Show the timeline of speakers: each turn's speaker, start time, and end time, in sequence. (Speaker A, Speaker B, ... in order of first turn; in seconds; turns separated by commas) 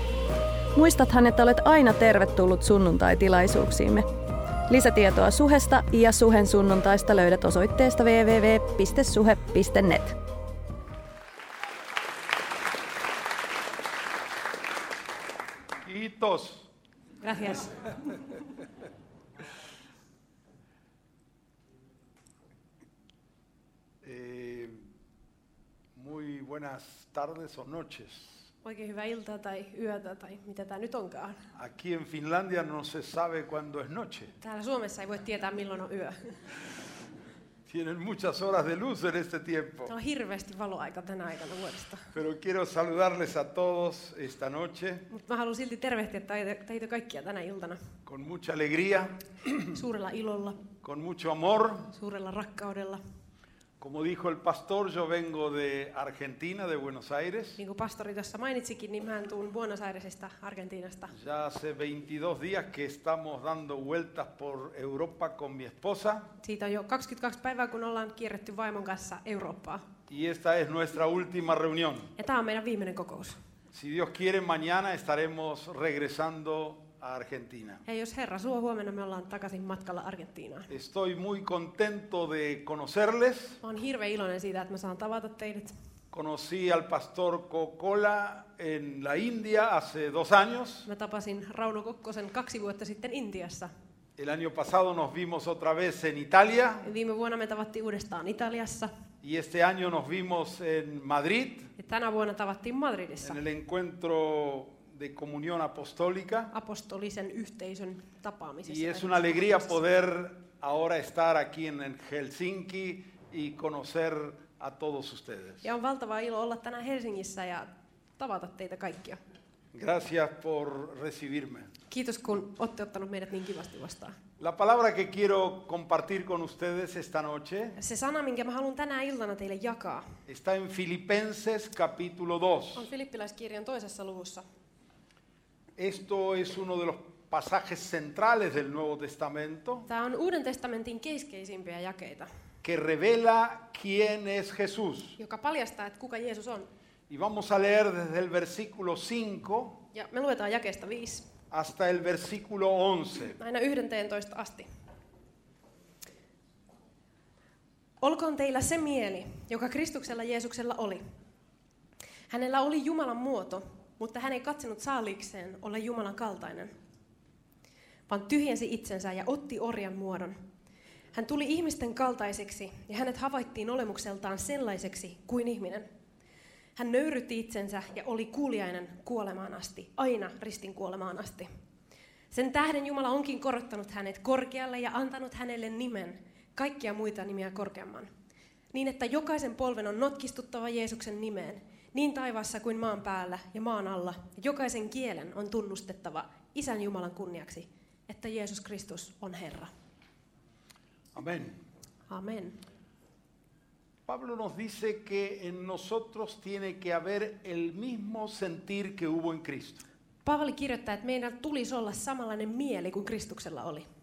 Speaker A: 0.7-4.1, Speaker A: 4.7-10.2, Speaker B: 15.8-16.7, Speaker C: 17.2-17.9, Speaker B: 24.0-24.8, Speaker B: 25.9-28.5, Speaker C: 28.6-31.4, Speaker B: 31.5-34.4, Speaker C: 34.4-36.3, Speaker B: 37.7-39.9, Speaker C: 39.9-42.1, Speaker B: 42.1-45.0, Speaker C: 45.1-47.8, Speaker B: 48.0-49.8, Speaker C: 49.7-50.6, Speaker B: 50.8-51.9, Speaker C: 51.9-53.0, Speaker B: 53.8-57.6, Speaker C: 57.6-61.1, Speaker B: 61.1-66.3, Speaker C: 66.4-69.8, Speaker B: 70.1-72.1, Speaker C: 72.2-73.4, Speaker B: 73.7-77.8, Speaker C: 77.8-80.7, Speaker B: 80.7-83.6, Speaker C: 83.6-85.7, Speaker B: 86.1-90.9, Speaker C: 90.9-93.7, Speaker B: 94.2-96.8, Speaker C: 96.8-98.9, Speaker B: 99.2-101.7, Speaker C: 101.8-103.4, Speaker B: 103.2-106.5, Speaker C: 106.5-109.8, Speaker B: 108.7-115.7, Speaker C: 115.6-119.2, Speaker B: 119.7-121.7, Speaker C: 121.9-124.2, Speaker B: 124.4-127.8, Speaker C: 127.8-130.1, Speaker B: 130.3-132.9, Speaker C: 132.7-134.4, Speaker B: 135.8-139.9, Speaker C: 139.9-142.3, Speaker B: 142.6-145.2, Speaker C: 145.2-146.7, Speaker B: 147.1-149.8, Speaker C: 149.9-151.3, Speaker B: 151.5-153.4, Speaker C: 153.3-154.7, Speaker C: 158.0-161.0, Speaker C: 162.3-166.7, Speaker C: 168.1-170.4, Speaker C: 171.1-175.8, Speaker C: 176.8-181.5, Speaker C: 182.3-188.1, Speaker C: 188.7-199.7, Speaker B: 201.1-201.6, Speaker C: 202.1-202.6, Speaker B: 204.1-209.8, Speaker C: 210.2-213.9